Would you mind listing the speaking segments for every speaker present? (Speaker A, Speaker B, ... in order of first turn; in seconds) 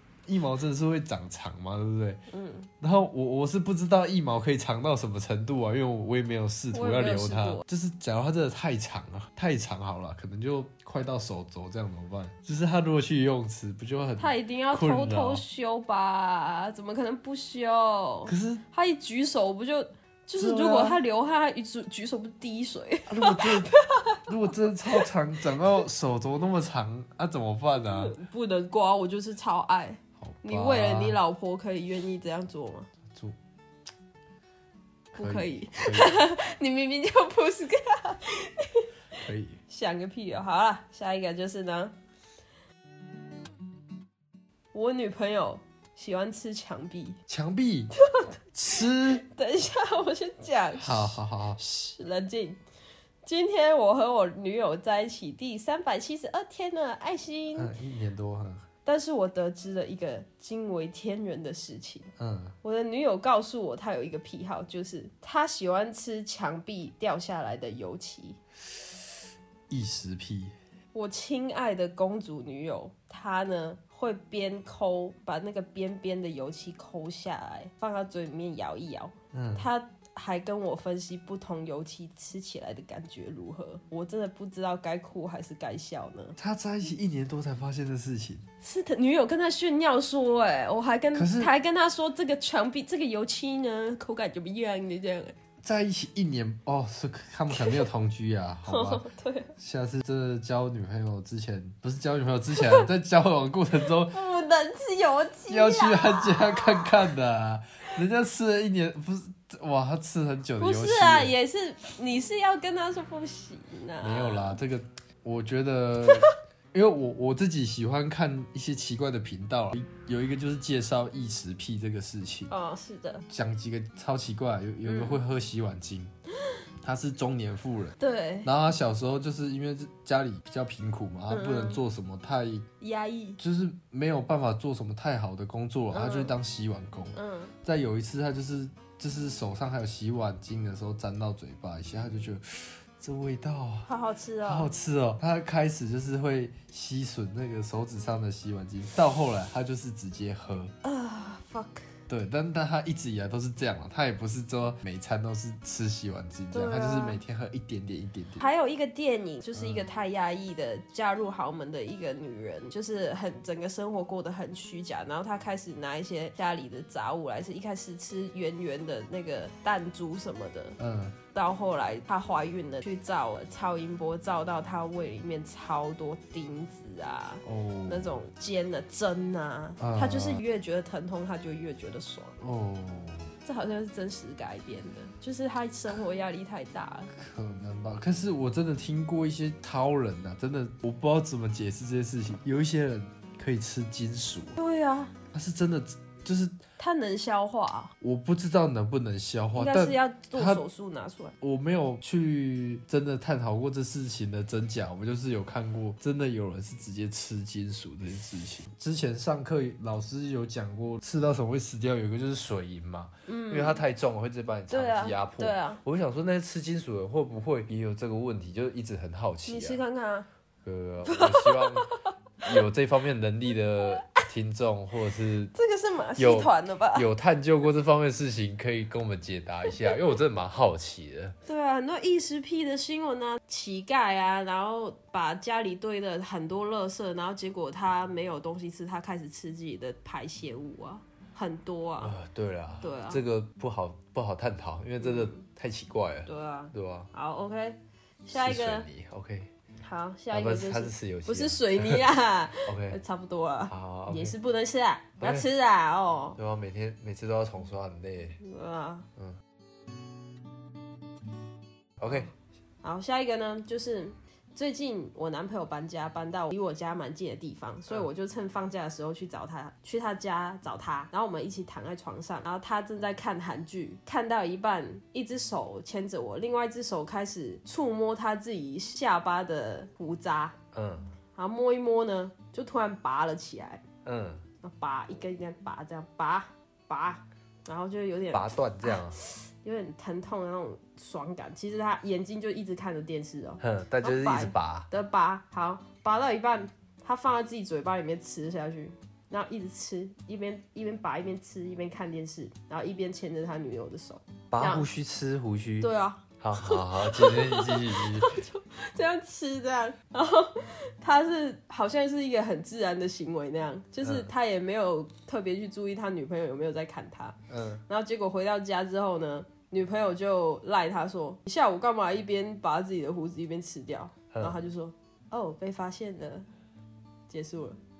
Speaker A: 0.2-2.2, 2.8-15.4, 18.3-18.6, 20.4-21.0, 23.1-28.1, 30.2-31.2, 33.1-33.4, 35.1-36.2, 39.2-39.6, 47.3-47.9, 48.5-49.2, 50.8-51.6, 57.6-58.6, 62.2-62.5, 69.7-70.5, 79.3-79.7, 86.4-88.4, 91.1-91.5, 95.6-99.0, 99.6-104.2, 105.5-111.3, 114.0-122.5, 123.3-126.1, 126.8-132.6, 133.4-143.9, 144.4-150.7, 152.1-158.4, 159.5-159.8, 170.8-171.2, 177.4-178.1, 179.8-180.4, 182.4-183.3, 187.1-194.6, 195.3-196.6, 198.0-200.6, 201.4-219.8, 220.6-221.9, 222.4-225.5, 226.2-231.3, 242.0-247.1, 248.3-249.5, 250.3-252.0, 252.7-253.0, 253.7-254.3, 255.2-255.5, 256.4-258.4, 262.0-262.3, 280.7-281.1, 284.0-284.4, 288.3-289.2, 293.6-294.9, 304.5-305.9, 306.4-308.4, 314.0-314.3, 317.5-317.8, 324.3-324.6
Speaker B: 2.3-2.7, 6.7-7.6, 14.2-24.2, 27.9-32.9, 35.1-38.9, 39.7-41.9, 44.7-47.2, 48.0-52.6, 53.2-57.7, 58.8-62.1, 62.6-68.4, 70.9-86.3, 88.6-95.3, 97.5-97.8, 98.7-99.5, 102.6-102.9, 104.1-107.1, 110.6-114.6, 122.5-123.2, 124.8-125.2, 128.0-128.5, 131.3-131.8, 132.8-133.4, 135.9-136.3, 137.2-137.5, 143.9-144.7, 150.8-151.9, 156.5-157.2, 158.4-170.8, 171.3-182.3, 183.4-187.1, 194.6-195.1, 196.8-197.9, 199.5-201.3, 213.3-213.8, 214.7-215.8, 219.4-220.3, 221.1-222.6, 225.5-227.1, 231.4-242.2, 242.8-243.2, 245.0-245.4, 246.3-248.8, 249.8-256.4, 258.4-259.1, 262.8-280.6, 281.3-283.8, 284.6-304.9, 305.8-317.4, 317.9-326.5, 327.3-327.8